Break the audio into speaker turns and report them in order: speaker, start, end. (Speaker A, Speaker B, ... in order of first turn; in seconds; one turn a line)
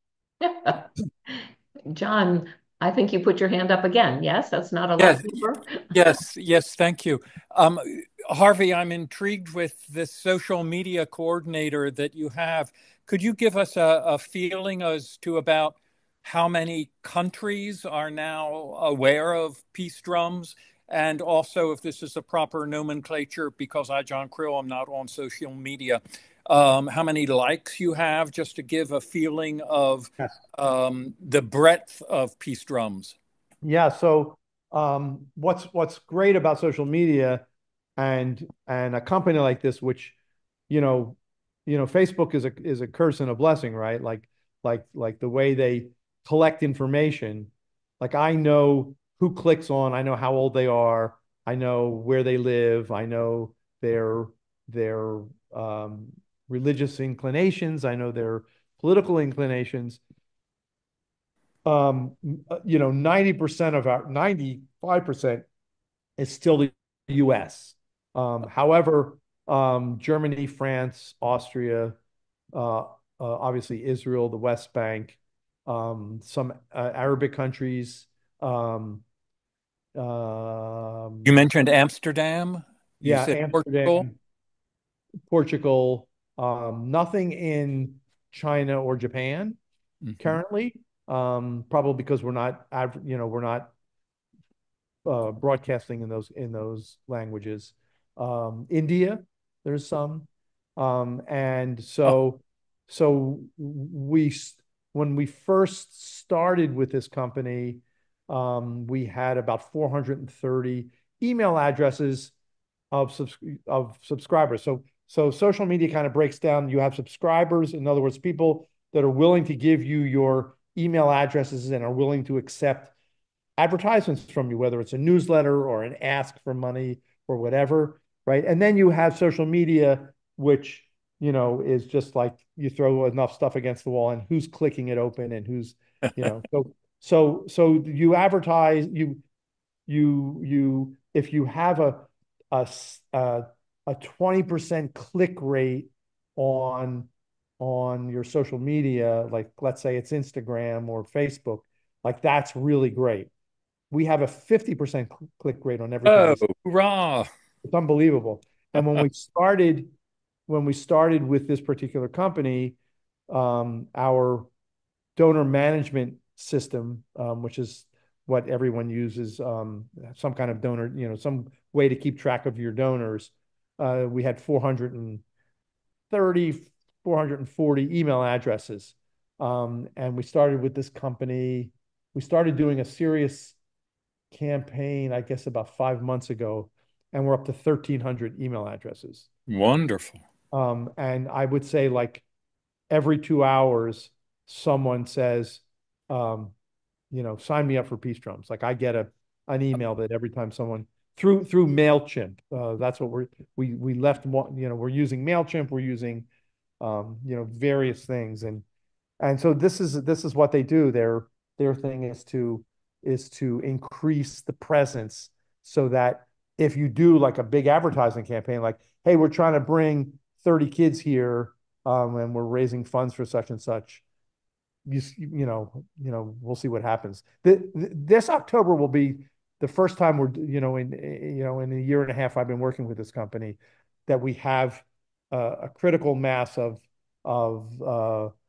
Speaker A: 0.4-5.8
Speaker B: 5.0-5.3
Speaker B: 5.9-33.1
Speaker C: 33.6-37.4
Speaker C: 38.0-40.1
Speaker C: 40.7-60.0
Speaker C: 61.6-65.5
Speaker C: 66.2-72.0
Speaker C: 72.5-79.0
Speaker C: 79.9-81.3
Speaker B: 81.2-84.0
Speaker C: 83.0-84.1
Speaker C: 85.3-89.6
Speaker B: 90.0-90.4
Speaker C: 90.2-93.7
Speaker C: 95.0-112.3
Speaker C: 112.9-122.9
Speaker C: 123.6-139.2
Speaker C: 139.9-153.3
Speaker C: 153.9-156.5
Speaker B: 156.0-157.3
Speaker C: 157.6-159.9
Speaker C: 160.5-162.8
Speaker C: 163.3-164.5
Speaker C: 165.2-175.2
Speaker C: 176.1-183.6
Speaker C: 184.3-189.3
Speaker B: 189.5-190.2
Speaker C: 190.5-192.2
Speaker C: 192.9-196.5
Speaker C: 197.1-206.3
Speaker C: 206.8-208.6
Speaker C: 209.2-224.0
Speaker C: 224.8-238.3